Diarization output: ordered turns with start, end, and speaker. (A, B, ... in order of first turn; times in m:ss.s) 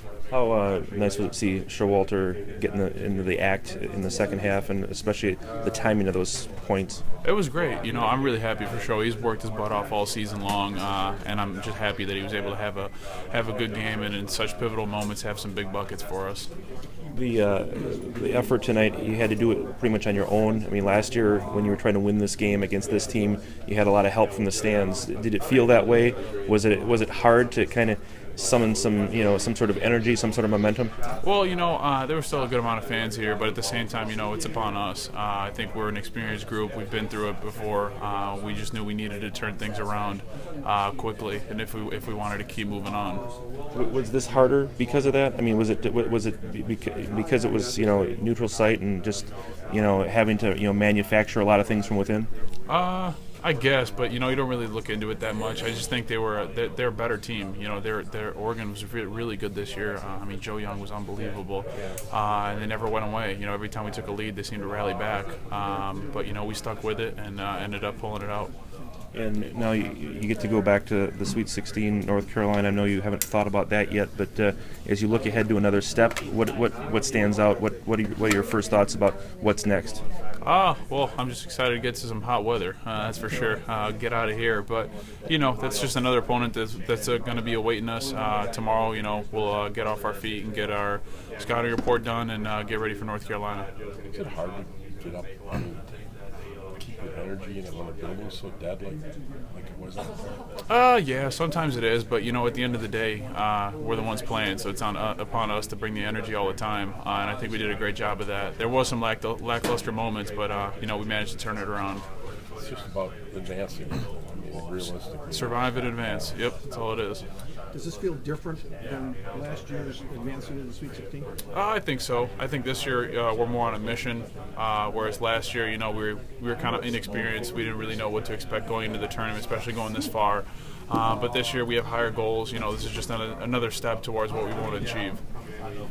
0:00.3-0:07.0 A
0:07.2-0:16.5 B
0:17.1-0:30.9 A
0:31.2-0:43.2 B
0:43.7-0:52.3 A
0:52.7-1:08.5 B
1:09.1-1:20.0 A
1:20.4-1:33.7 B
1:34.1-1:35.6 C
1:36.8-1:39.0 C
1:39.5-1:40.2 C
1:40.7-1:52.0 B
1:52.6-1:55.8 C
1:55.3-1:57.2 B
1:57.7-2:01.3 D
2:01.5-2:15.2 B